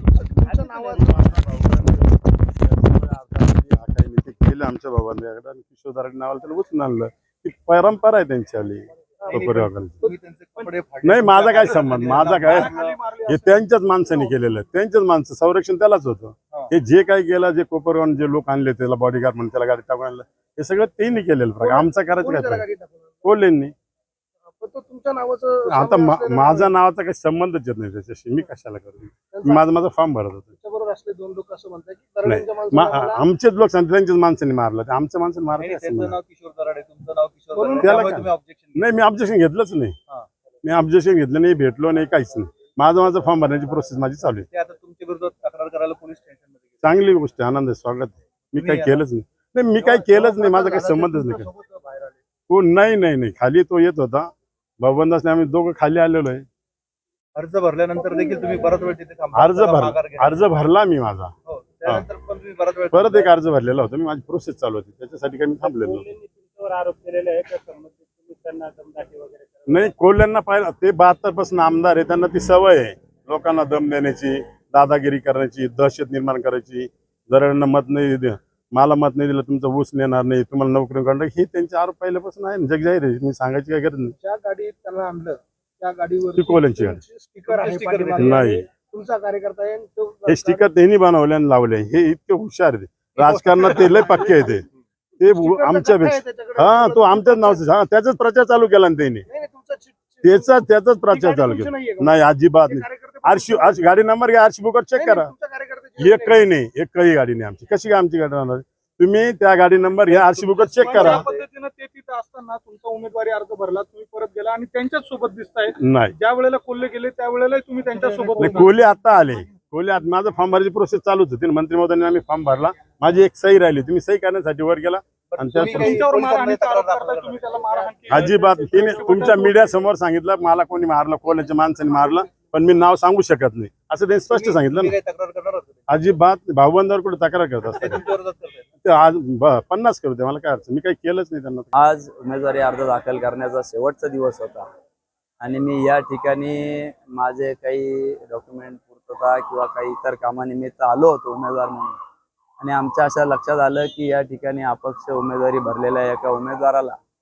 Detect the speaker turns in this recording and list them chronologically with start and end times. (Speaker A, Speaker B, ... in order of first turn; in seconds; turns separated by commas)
Speaker A: 0.1-1.4, Speaker B: 1.0-10.1, Speaker C: 9.3-13.1, Speaker B: 11.0-12.7, Speaker A: 11.7-14.3, Speaker B: 13.2-22.6, Speaker A: 21.6-23.2, Speaker B: 23.2-23.7, Speaker A: 24.6-26.7, Speaker B: 25.7-30.5, Speaker A: 29.3-29.7, Speaker A: 30.6-33.2, Speaker B: 32.2-36.1, Speaker C: 35.6-39.0, Speaker A: 37.5-38.0, Speaker B: 37.8-40.0, Speaker B: 40.6-44.5, Speaker C: 44.5-46.9, Speaker B: 46.8-51.5, Speaker C: 48.5-49.0, Speaker C: 49.8-50.4, Speaker A: 50.1-51.6, Speaker C: 51.6-52.0, Speaker B: 52.5-56.4, Speaker C: 57.3-60.5, Speaker A: 58.0-58.9, Speaker B: 59.3-61.3, Speaker C: 61.4-63.3, Speaker B: 62.9-66.0, Speaker D: 65.6-69.7, Speaker B: 69.7-84.1, Speaker A: 84.2-90.7, Speaker B: 86.4-87.0, Speaker C: 87.4-88.3, Speaker B: 88.2-88.6, Speaker B: 90.3-94.6, Speaker A: 93.2-94.5, Speaker C: 93.7-94.4, Speaker B: 95.2-99.2, Speaker A: 95.2-97.6, Speaker A: 99.3-100.5, Speaker B: 100.2-105.3, Speaker A: 101.1-103.8, Speaker A: 105.0-106.5, Speaker B: 106.0-111.3, Speaker A: 110.1-118.8, Speaker B: 115.8-116.1, Speaker B: 118.4-126.0, Speaker C: 125.3-127.6, Speaker A: 125.7-129.8, Speaker B: 128.1-134.9, Speaker C: 134.3-135.9, Speaker B: 135.9-138.0, Speaker C: 137.7-138.7, Speaker B: 138.8-141.7, Speaker E: 141.7-144.7, Speaker E: 145.4-152.0, Speaker E: 152.6-156.9